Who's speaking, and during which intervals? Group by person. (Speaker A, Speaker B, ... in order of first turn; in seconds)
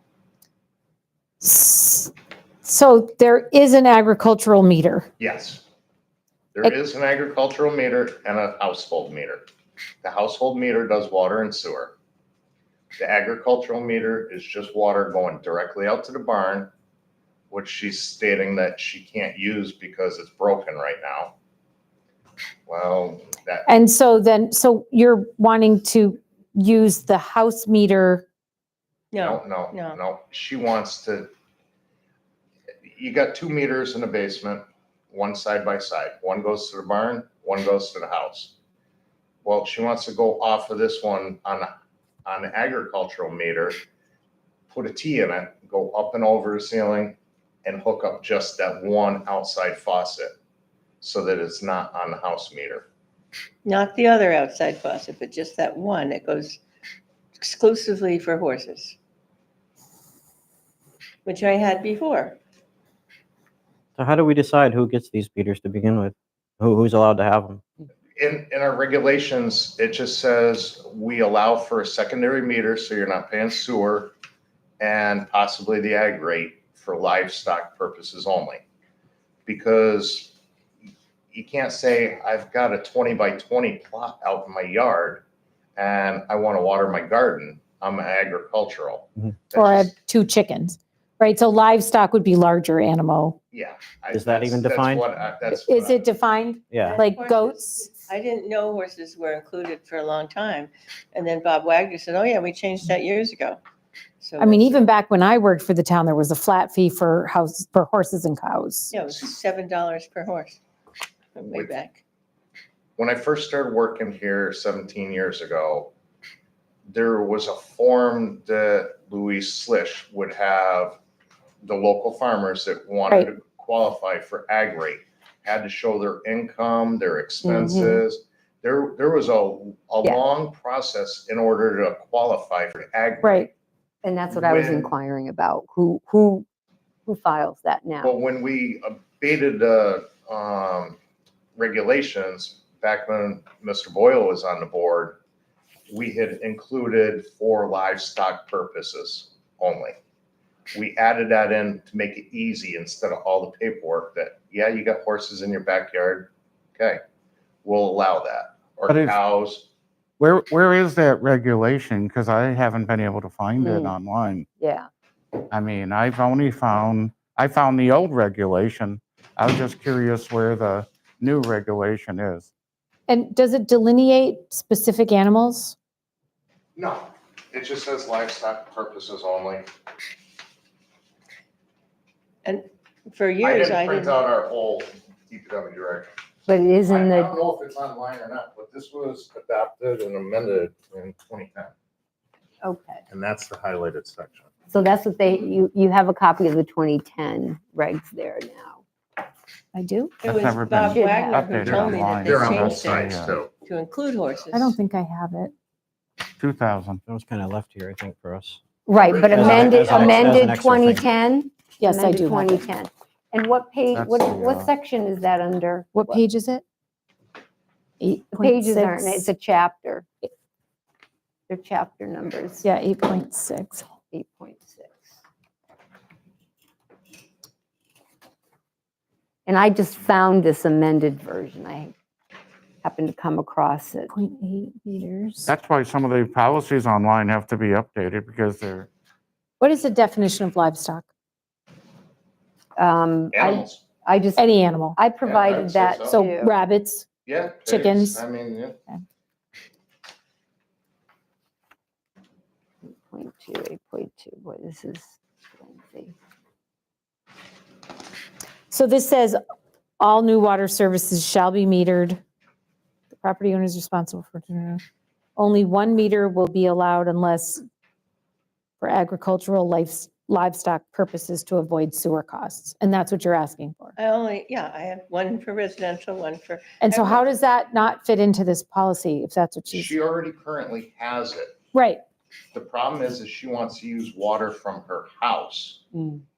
Speaker A: 1.4-2.1, 2.6-5.1, 23.6-28.2, 89.6-93.4, 95.5-97.8, 104.4-108.9, 133.2-133.5, 173.1-175.8, 199.7-200.2, 204.5-205.5, 211.8-212.6, 216.0-216.6, 218.0-219.2, 222.6-223.8, 234.1-235.5, 239.6-241.1, 244.4-244.9, 246.1-247.1, 247.7-248.2, 258.7-259.4, 260.0-262.2, 263.1-264.8, 265.4-267.6, 268.8-273.9, 276.8-280.0, 281.7-282.0
Speaker B: 5.2-5.6, 6.5-9.4, 10.0-11.9, 13.0-16.7, 17.5-21.3, 22.7-23.7, 29.2-31.3, 32.9-38.5, 39.4-41.7, 42.2-43.8, 44.7-50.3, 51.0-52.9, 68.2-74.1, 74.8-78.6, 79.5-80.3, 81.3-85.2, 85.8-90.0, 93.5-96.1, 111.5-111.8, 113.0-115.9, 116.9-121.0, 121.6-133.5, 134.3-134.9, 138.0-141.0, 141.6-145.2, 145.9-150.0, 150.7-157.0, 157.6-159.7, 176.8-179.7, 183.4-186.1, 186.8-191.7, 193.1-194.5, 201.6-203.5, 209.0-210.5, 243.3-243.8, 245.2-246.2, 247.2-248.8, 279.7-281.6, 282.5-285.8
Speaker C: 29.1-30.0, 53.6-56.6, 57.4-59.0, 61.2-62.4, 96.8-103.6, 104.2-104.8, 108.9-110.6, 111.3-112.0, 182.4-184.2, 200.2-203.1, 203.6-204.8, 273.9-277.3
Speaker D: 64.0-67.6, 94.1-95.0, 207.1-208.6, 209.4-211.0
Speaker E: 127.4-128.0, 134.0-136.4, 137.1-138.1, 163.6-164.0, 164.6-164.9, 186.5-187.3, 192.6-193.0, 194.7-198.8, 200.9-201.4, 208.9-216.2, 218.3-220.1, 221.5-222.7, 224.1-225.1, 229.5-231.9, 232.8-234.2, 242.8-246.5, 252.8-256.1, 285.9-286.2
Speaker F: 158.9-159.2, 160.2-164.5, 165.5-172.5, 200.2-203.4, 206.4-207.0, 209.5-209.8, 213.9-214.7, 235.5-238.9